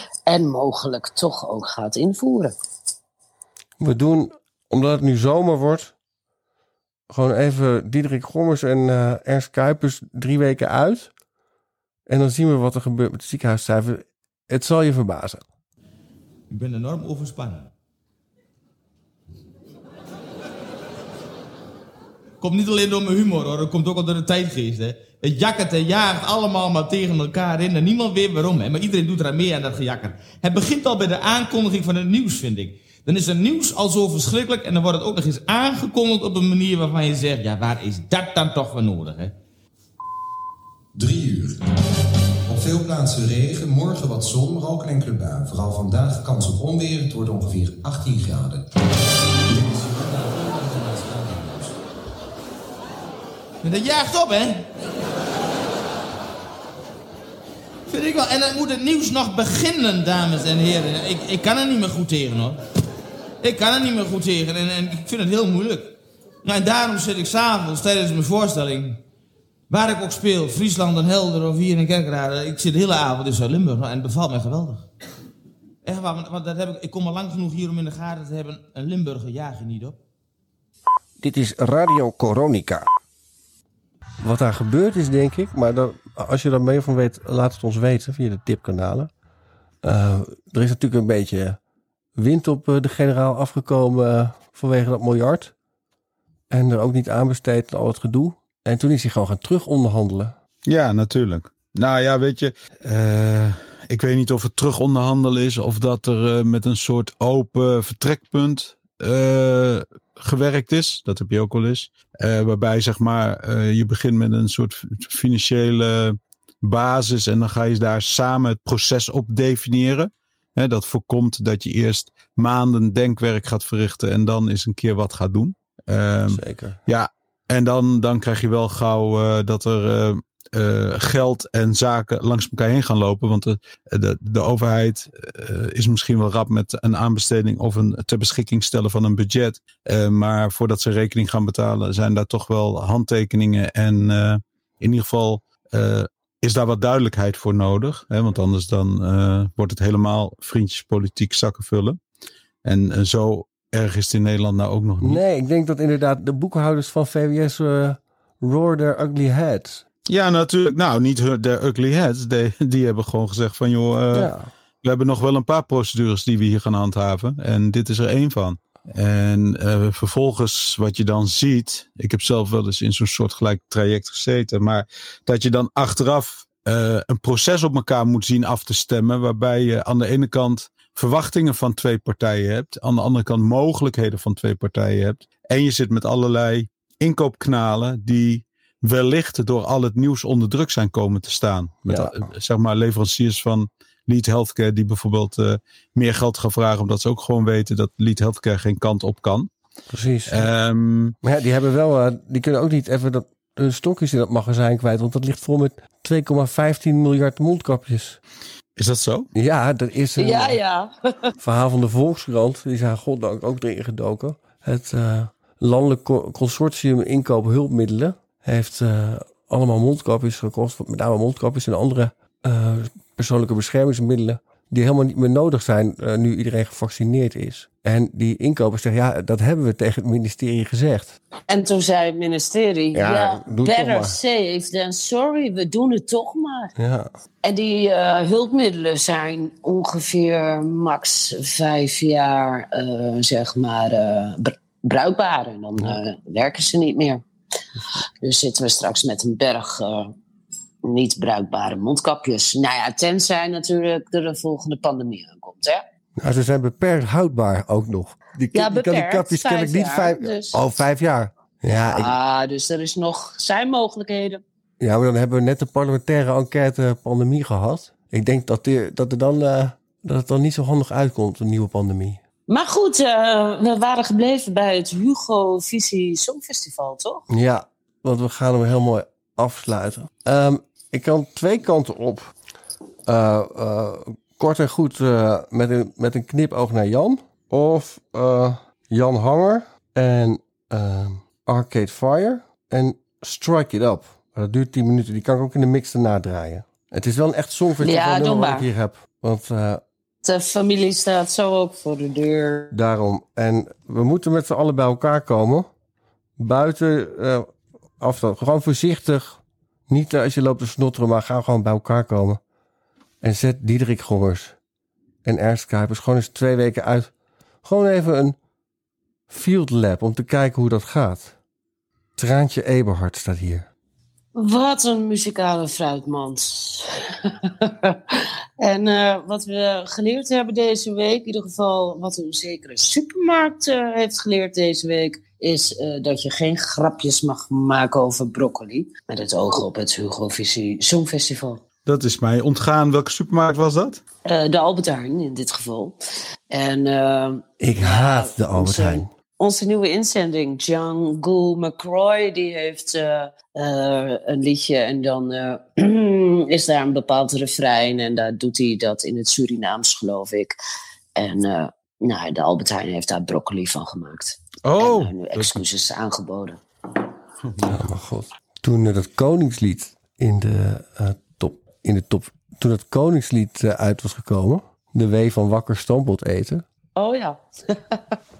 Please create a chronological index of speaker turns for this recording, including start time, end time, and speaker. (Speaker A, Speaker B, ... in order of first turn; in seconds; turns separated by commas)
Speaker A: 0.3-2.5, Speaker B: 3.8-5.9, Speaker B: 7.1-11.1, Speaker B: 12.1-15.4, Speaker C: 16.5-17.7, Speaker C: 22.4-39.3, Speaker D: 40.9-41.7, Speaker D: 42.5-48.7, Speaker D: 49.5-51.8, Speaker C: 53.6-54.6, Speaker C: 57.9-62.6, Speaker C: 63.4-69.0, Speaker C: 69.7-74.9, Speaker C: 75.8-80.0, Speaker B: 81.2-82.8, Speaker B: 84.2-89.1, Speaker B: 89.8-91.6, Speaker B: 92.2-95.5, Speaker B: 96.5-100.3, Speaker E: 100.7-152.0, Speaker B: 126.3-126.8, Speaker E: 152.6-155.2, Speaker B: 155.0-159.8, Speaker E: 160.1-164.3, Speaker B: 164.1-164.5, Speaker E: 164.8-199.5, Speaker B: 191.9-192.2, Speaker B: 199.9-200.5, Speaker E: 200.3-201.2, Speaker B: 201.2-208.2, Speaker E: 208.8-209.3, Speaker B: 209.3-210.6, Speaker A: 210.2-211.3, Speaker B: 211.4-231.1, Speaker A: 231.5-236.7, Speaker B: 232.9-234.2, Speaker B: 236.8-237.1, Speaker A: 237.4-247.2, Speaker A: 248.2-250.1, Speaker A: 250.8-255.8, Speaker B: 256.2-262.1, Speaker A: 258.5-260.6, Speaker A: 261.9-264.4, Speaker B: 264.8-272.2, Speaker A: 272.5-277.2, Speaker B: 277.3-282.3, Speaker B: 283.1-299.8, Speaker A: 297.8-298.7, Speaker A: 300.2-302.7, Speaker B: 302.7-305.7, Speaker B: 306.4-312.4, Speaker B: 313.2-314.6, Speaker B: 315.2-317.1, Speaker B: 317.6-318.4, Speaker B: 319.3-321.4, Speaker B: 322.2-323.7, Speaker A: 324.3-341.6, Speaker E: 341.8-344.0, Speaker A: 344.2-346.0, Speaker A: 346.5-360.6, Speaker B: 347.6-349.1, Speaker A: 361.1-366.6, Speaker E: 364.6-365.6, Speaker E: 367.5-367.8, Speaker B: 367.7-376.6, Speaker A: 376.9-378.2